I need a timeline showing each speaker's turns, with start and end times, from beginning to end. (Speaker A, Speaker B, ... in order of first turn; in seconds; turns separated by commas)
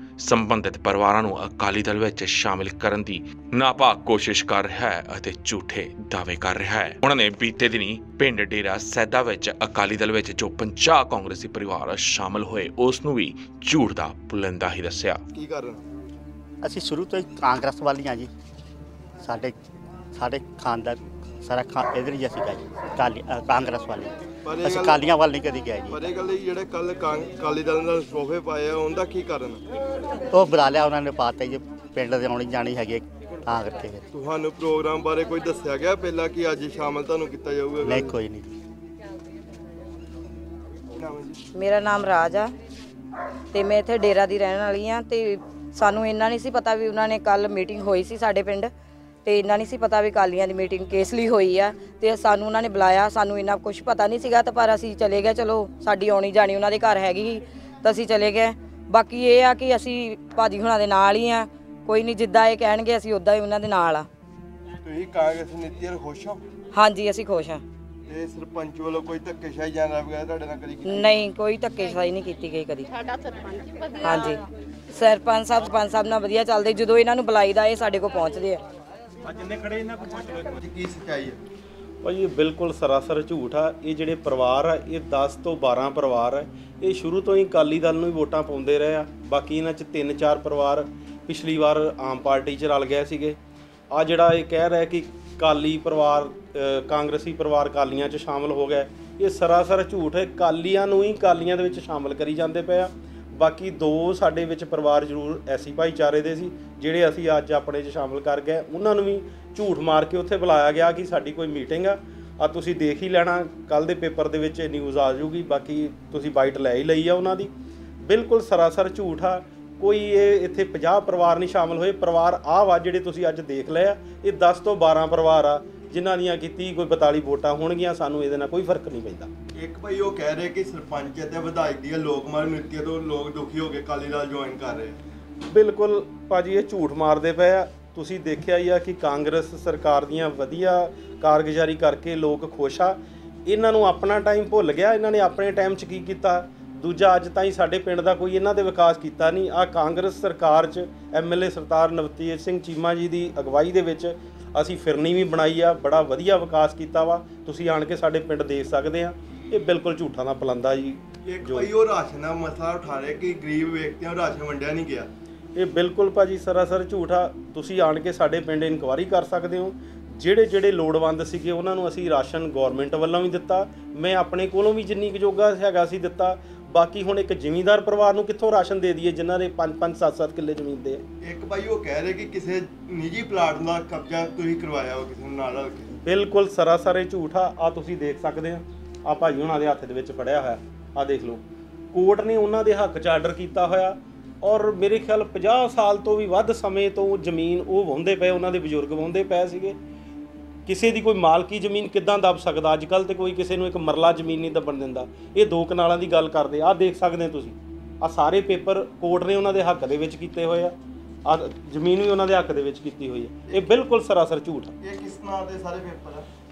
Speaker A: 0.2-15.2, Speaker B: 15.3-15.8, Speaker C: 16.6-18.3, Speaker C: 19.2-19.6, Speaker C: 20.1-26.0, Speaker B: 24.4-25.1, Speaker B: 25.9-29.6, Speaker C: 30.3-34.0, Speaker B: 34.1-38.1, Speaker C: 37.8-38.5, Speaker B: 41.0-41.4, Speaker D: 41.5-42.5, Speaker D: 43.5-48.7, Speaker D: 49.2-64.1, Speaker B: 64.8-66.4, Speaker D: 66.7-67.6, Speaker B: 68.1-71.2, Speaker D: 70.9-72.9, Speaker D: 74.0-78.6, Speaker E: 79.2-80.6, Speaker B: 80.6-81.4, Speaker E: 82.0-93.4, Speaker E: 93.9-117.5, Speaker E: 118.0-129.3, Speaker B: 129.6-135.0, Speaker E: 135.5-161.7, Speaker B: 161.3-165.1, Speaker E: 165.6-181.0, Speaker B: 181.2-185.9, Speaker E: 186.0-199.8, Speaker E: 200.7-210.8, Speaker E: 211.3-214.8, Speaker B: 214.8-216.3